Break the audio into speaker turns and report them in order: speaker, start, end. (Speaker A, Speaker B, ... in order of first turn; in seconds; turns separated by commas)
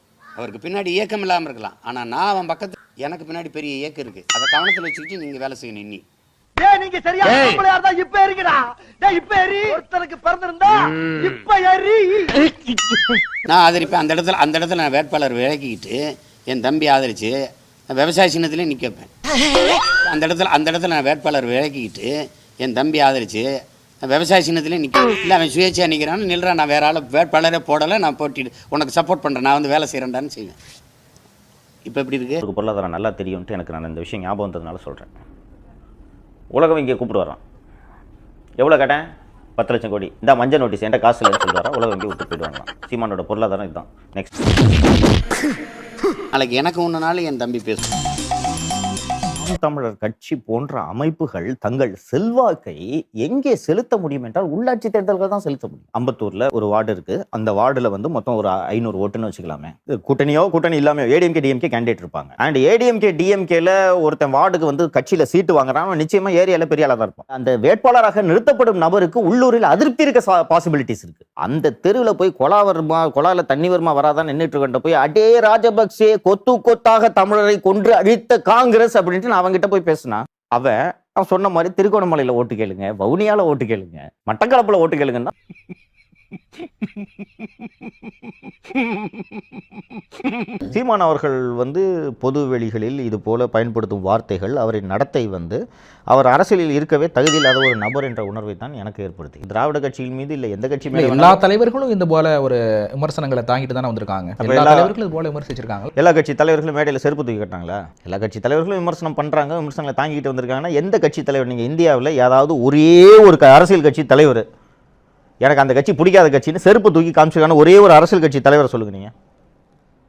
Speaker A: 3.3-3.8, Speaker A: 4.9-6.0, Speaker A: 6.9-8.4, Speaker B: 6.9-11.0, Speaker A: 9.2-10.4, Speaker A: 11.2-12.0, Speaker B: 11.7-12.3, Speaker A: 14.1-15.9, Speaker A: 16.7-17.3, Speaker A: 18.0-19.1, Speaker A: 20.1-22.1, Speaker A: 22.7-23.4, Speaker A: 24.1-24.4, Speaker A: 25.3-30.6, Speaker C: 32.4-35.1, Speaker C: 36.5-37.4, Speaker C: 38.6-39.0, Speaker C: 39.6-44.3, Speaker A: 46.4-47.3, Speaker C: 49.4-85.3, Speaker C: 90.6-95.6, Speaker C: 96.1-101.4, Speaker D: 100.9-105.9, Speaker C: 104.4-105.0, Speaker C: 106.0-114.5, Speaker C: 115.4-119.1